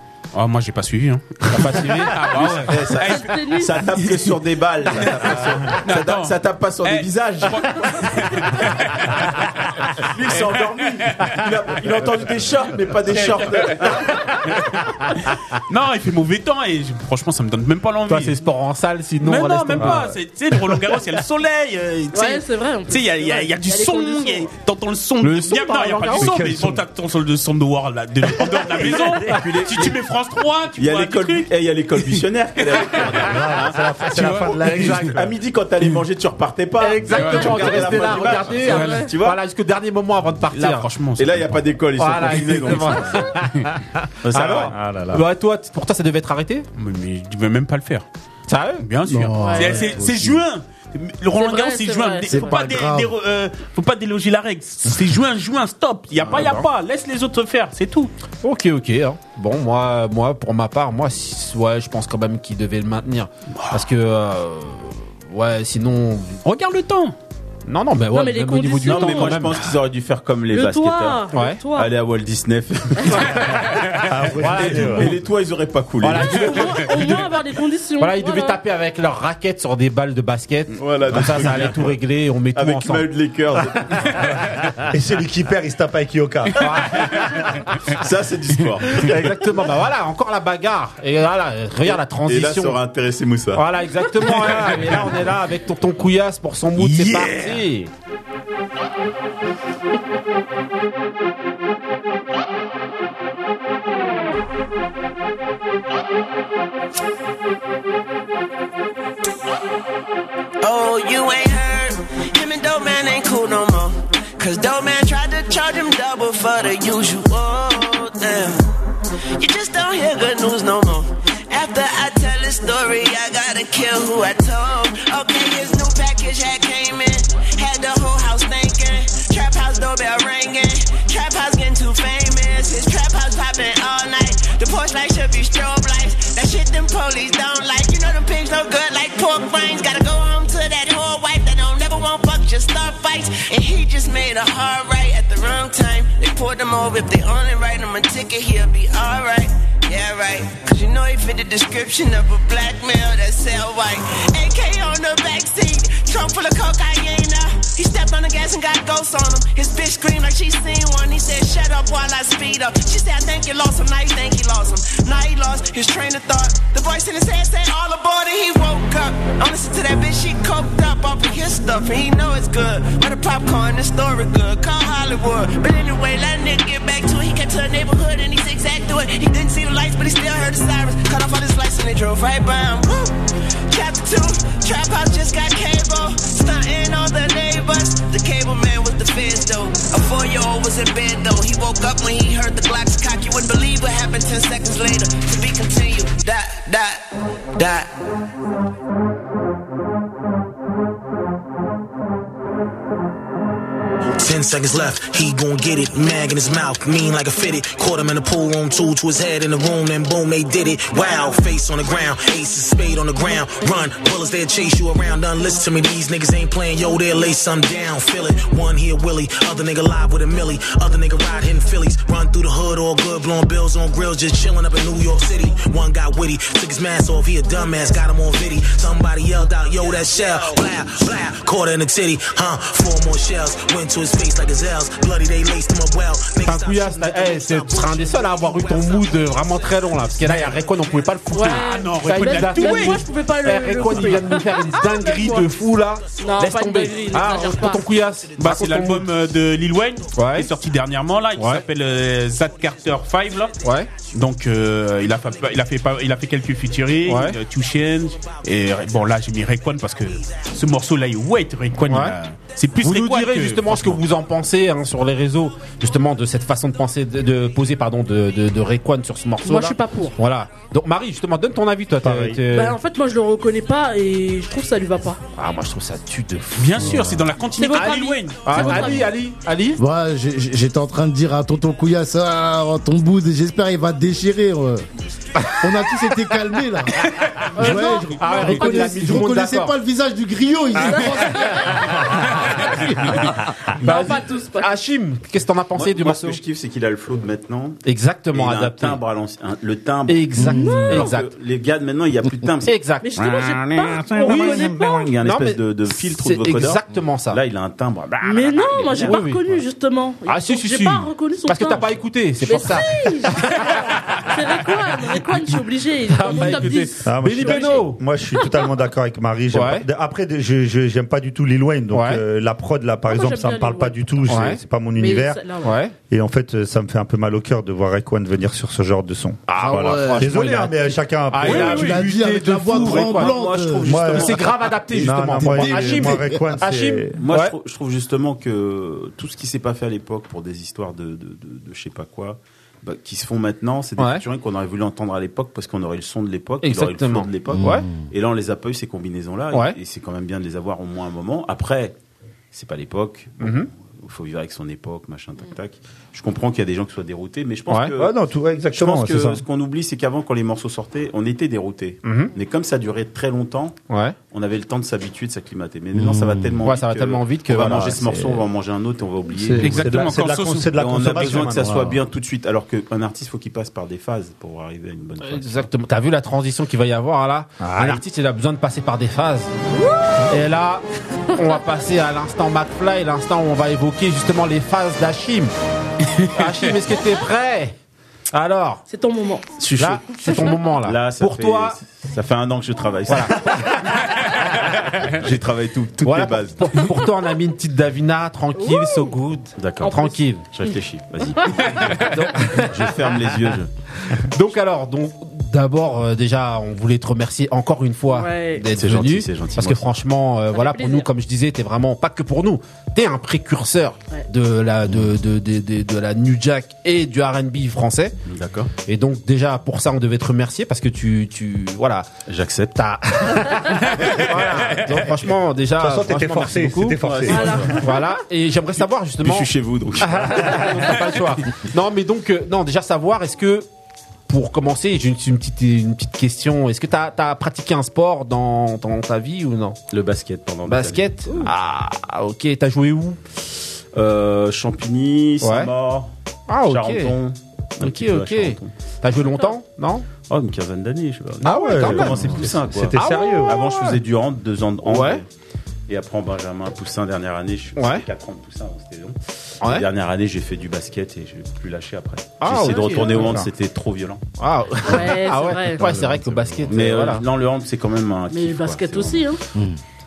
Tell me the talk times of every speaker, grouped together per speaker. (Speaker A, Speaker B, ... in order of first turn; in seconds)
Speaker A: 0.3-3.3, 3.9-4.3, 4.9-11.2, 14.4-18.4, 19.2-33.4, 34.0-35.0, 37.1-39.0, 40.5-41.5, 46.8-48.0, 48.8-58.1, 66.4-67.1, 73.4-74.0, 94.6-94.9, 96.8-97.6, 240.2-240.6, 241.5-243.0, 248.4-253.6, 254.1-264.0, 276.6-279.0, 316.4-316.8, 331.4-332.0, 369.6-370.7, 386.2-386.5
Speaker B: 1.5-2.8, 18.1-20.1, 25.2-26.8, 34.0-35.1, 36.8-40.9, 42.0-46.6, 48.5-48.9, 56.3-56.6, 58.4-66.4, 67.7-69.7, 71.3-71.6, 74.3-75.2, 76.0-77.2, 78.0-83.1, 86.6-87.2, 88.8-92.8, 93.5-97.9, 236.4-249.1, 250.1-250.5, 251.3-251.6, 253.6-253.9, 257.0-257.4, 261.9-262.2, 262.8-272.8, 275.3-277.2, 277.7-279.8, 287.6-289.8, 293.8-296.4, 297.8-299.0, 300.1-301.3, 302.6-303.2, 304.2-307.4, 309.0-309.4, 310.2-314.1, 316.1-318.0, 319.5-319.9, 321.9-322.2, 324.3-324.6, 325.6-325.9, 329.5-333.4, 333.9-337.5, 344.0-344.2, 346.6-347.9, 349.5-349.8, 353.4-353.7, 357.7-357.9, 362.0-362.3, 363.9-364.2, 366.6-368.4, 375.2-379.5, 380.2-385.5, 386.3-387.8, 388.3-388.8, 389.8-391.8, 393.1-393.9, 396.0-400.4, 401.9-403.1, 404.1-418.2, 418.9-422.1, 422.8-433.7, 434.3-439.8, 440.7-443.2, 445.4-445.7, 446.5-447.1, 447.8-450.1, 451.4-454.0, 454.8-455.2, 457.8-458.1, 459.6-459.9, 462.4-463.5, 464.4-467.2
Speaker C: 2.6-8.1, 10.0-14.1, 29.2-29.9, 30.8-33.9, 34.8-39.4, 41.2-43.3, 44.2-44.7, 68.8-73.6, 74.4-76.5, 80.7-82.0, 82.5-84.3, 87.9-89.3, 91.9-93.6, 295.7-309.2, 332.7-334.6, 337.2-351.9, 352.5-358.1, 358.7-363.8, 364.3-370.1, 370.7-375.7, 389.6-394.0, 395.0-396.9, 399.6-403.7, 408.7-409.9, 418.2-418.7, 422.3-422.9, 427.0-427.8, 429.2-431.0, 439.9-441.4, 443.9-446.1, 446.6-448.7, 450.3-455.2, 455.9-464.2, 465.8-469.3
Speaker D: 3.0-3.8, 22.1-24.5, 38.6-39.1, 49.4-49.9, 51.4-52.6, 68.1-69.4, 70.5-71.9, 76.2-78.6, 241.3-245.5, 246.2-247.8, 269.4-270.1, 272.5-275.2, 277.6-279.1, 287.6-288.9, 290.8-292.3, 293.0-294.7, 300.4-301.1, 303.0-305.1, 308.2-318.5, 323.1-324.0, 325.0-325.8, 379.7-380.3, 388.9-389.5, 390.2-390.5, 398.6-399.1, 399.8-400.1, 401.4-401.7, 408.1-408.7, 410.5-411.1, 427.3-428.1, 462.7-463.2, 464.8-465.9, 468.3-469.4
Speaker E: 28.4-29.2, 33.2-35.3, 44.6-45.2, 74.0-75.2, 84.8-87.6, 272.0-272.4, 317.0-325.4, 326.1-332.0, 333.8-337.2, 358.0-359.4, 367.6-368.1, 369.6-371.9, 377.6-378.0, 425.8-427.6, 451.4-453.6
Speaker F: 49.1-50.4, 52.3-53.1, 279.8-284.8, 285.6-287.0, 287.6-291.9, 300.4-300.8, 329.6-330.5, 331.4-333.9, 335.4-336.4, 347.5-348.1, 365.9-366.6, 369.4-369.7, 371.6-372.0
Speaker G: 110.6-118.7, 119.4-183.1, 183.7-197.9
Speaker H: 204.2-239.4